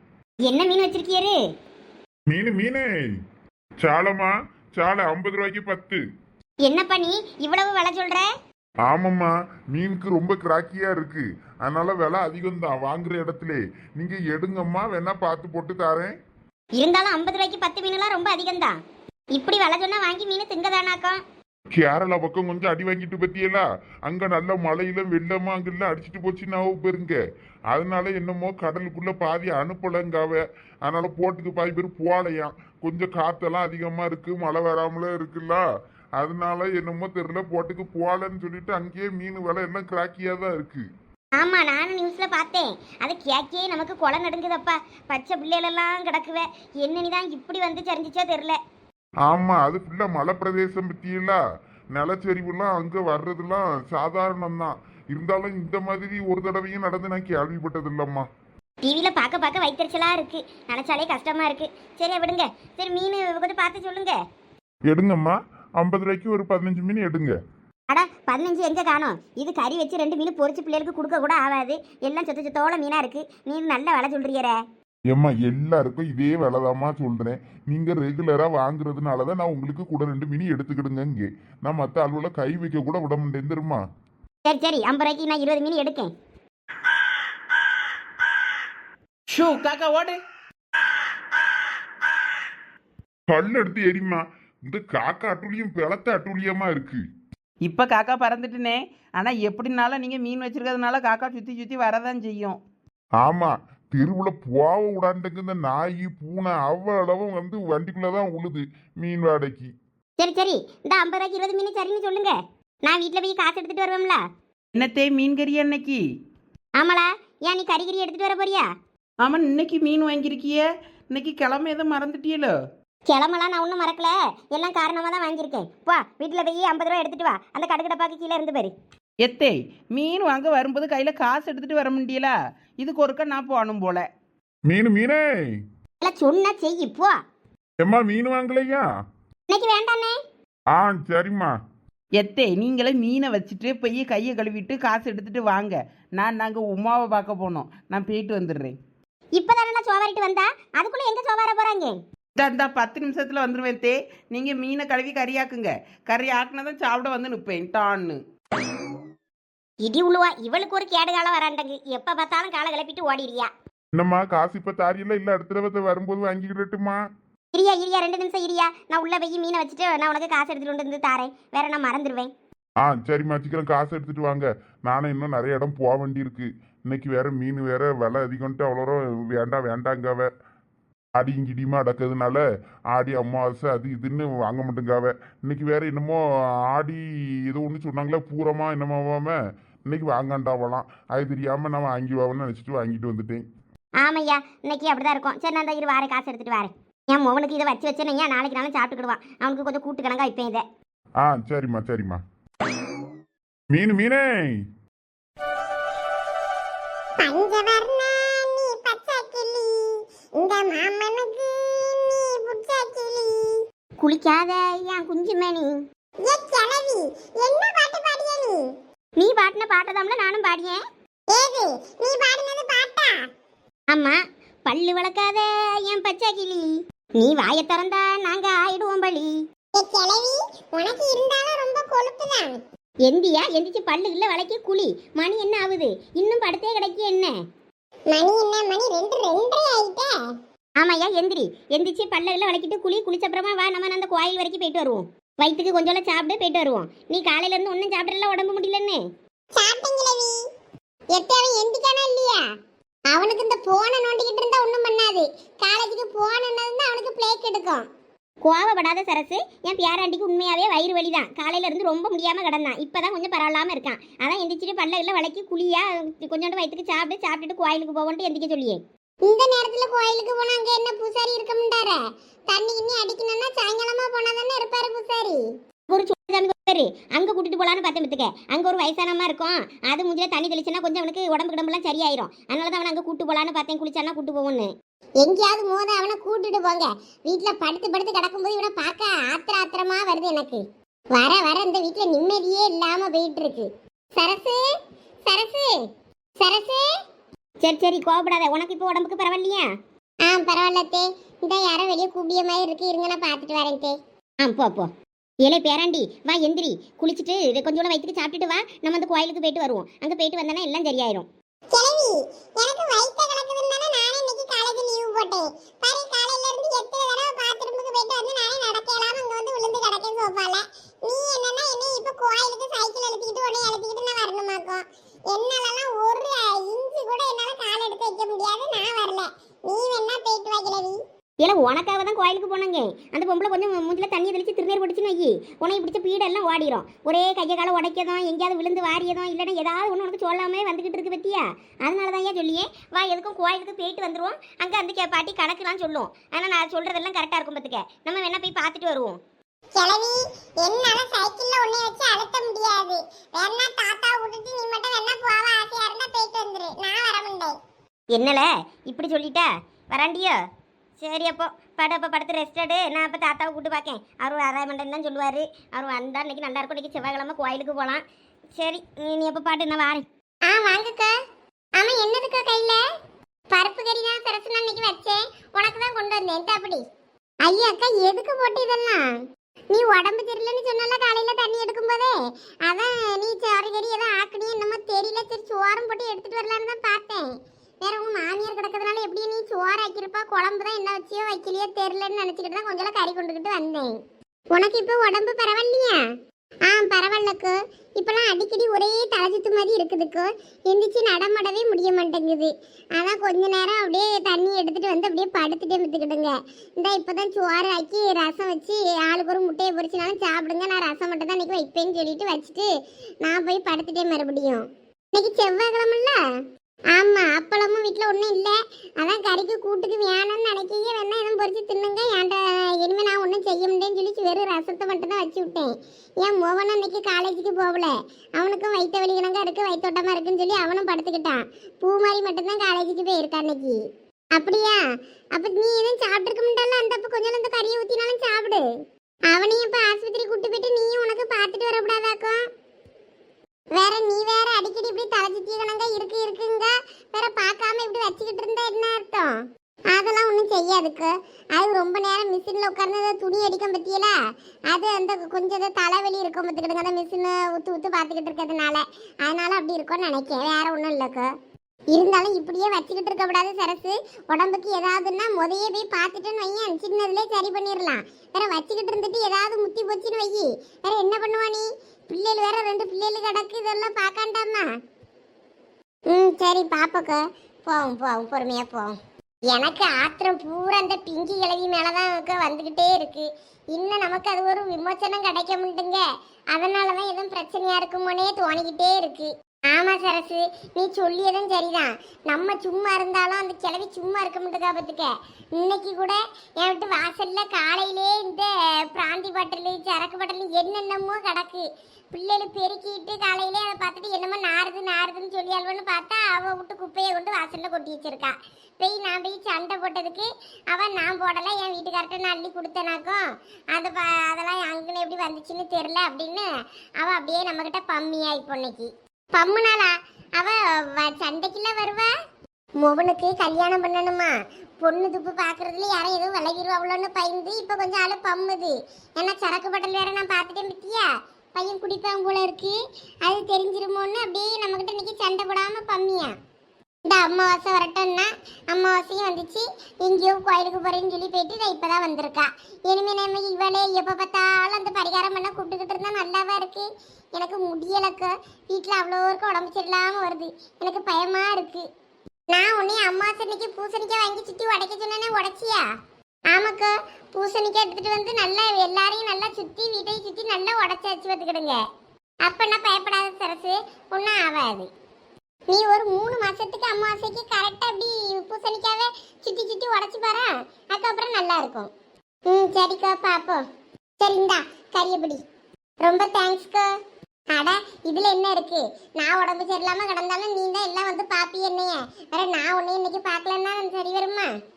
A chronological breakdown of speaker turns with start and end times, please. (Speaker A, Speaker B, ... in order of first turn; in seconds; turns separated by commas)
Speaker A: 0.4-1.4, Speaker B: 2.3-2.9, Speaker B: 3.8-6.0, Speaker A: 6.7-8.3, Speaker B: 8.9-16.1, Speaker A: 16.8-18.8, Speaker A: 19.3-21.2, Speaker B: 21.7-27.2, Speaker B: 27.7-35.6, Speaker B: 36.2-40.8, Speaker A: 41.4-48.6, Speaker B: 49.2-51.4, Speaker B: 51.9-58.2, Speaker A: 58.8-64.2, Speaker B: 64.9-67.3, Speaker A: 67.9-74.5, Speaker B: 75.1-83.8, Speaker A: 84.5-86.1, Speaker C: 89.3-90.2, Speaker B: 93.3-97.0, Speaker C: 97.6-102.6, Speaker B: 103.2-109.7, Speaker A: 110.2-114.2, Speaker C: 114.7-116.0, Speaker A: 116.8-118.7, Speaker C: 119.2-122.5, Speaker A: 123.1-128.7, Speaker C: 129.2-134.1, Speaker B: 134.7-135.2, Speaker A: 136.0-137.2, Speaker B: 137.8-138.8, Speaker A: 139.5-140.2, Speaker B: 140.7-141.5, Speaker C: 142.2-148.7, Speaker A: 149.4-152.0, Speaker C: 152.3-158.2, Speaker A: 159.8-163.5, Speaker B: 163.9-167.0, Speaker A: 167.5-172.3, Speaker B: 172.8-180.3, Speaker B: 181.2-186.2, Speaker B: 186.7-193.4, Speaker A: 194.0-200.6, Speaker B: 201.2-202.2, Speaker B: 203.7-204.5, Speaker D: 207.2-213.6, Speaker A: 214.0-215.8, Speaker D: 216.2-218.6, Speaker A: 219.2-220.8, Speaker D: 221.3-223.2, Speaker A: 223.9-229.3, Speaker D: 229.7-232.6, Speaker A: 233.1-237.3, Speaker D: 238.1-240.1, Speaker A: 240.8-249.0, Speaker D: 249.5-250.3, Speaker D: 251.1-252.4, Speaker D: 253.1-257.9, Speaker A: 258.4-268.8, Speaker D: 269.2-275.4, Speaker A: 275.9-284.7, Speaker D: 285.2-290.6, Speaker D: 291.1-294.6, Speaker D: 295.2-295.7, Speaker D: 296.4-296.8, Speaker A: 297.6-299.7, Speaker D: 300.3-303.9, Speaker A: 304.4-304.9, Speaker A: 305.4-311.3, Speaker D: 311.7-331.0, Speaker A: 331.4-349.2, Speaker D: 349.8-357.6, Speaker A: 358.1-360.4, Speaker A: 361.0-368.0, Speaker A: 368.6-370.0, Speaker D: 370.5-371.1, Speaker D: 371.8-372.8, Speaker D: 373.5-376.8, Speaker D: 377.4-379.0, Speaker D: 379.7-382.1, Speaker D: 382.7-387.3, Speaker D: 387.8-393.9, Speaker D: 394.5-396.0, Speaker D: 396.7-412.7, Speaker D: 413.2-414.6, Speaker D: 415.1-416.2, Speaker D: 416.9-425.7, Speaker D: 426.2-433.8, Speaker D: 434.3-434.8, Speaker D: 435.3-438.6, Speaker D: 439.3-442.4, Speaker D: 443.7-449.3, Speaker D: 449.9-454.1, Speaker D: 454.7-461.3, Speaker D: 461.9-474.7, Speaker D: 476.1-478.9, Speaker D: 479.5-486.0, Speaker D: 486.5-513.2, Speaker D: 513.7-516.5, Speaker D: 517.0-522.1, Speaker D: 522.8-536.3, Speaker D: 537.0-551.8, Speaker D: 552.5-555.8, Speaker D: 556.5-561.8, Speaker D: 562.4-564.9, Speaker D: 565.7-571.9, Speaker D: 572.5-573.6, Speaker D: 574.2-575.4, Speaker D: 576.0-576.9, Speaker D: 577.5-584.5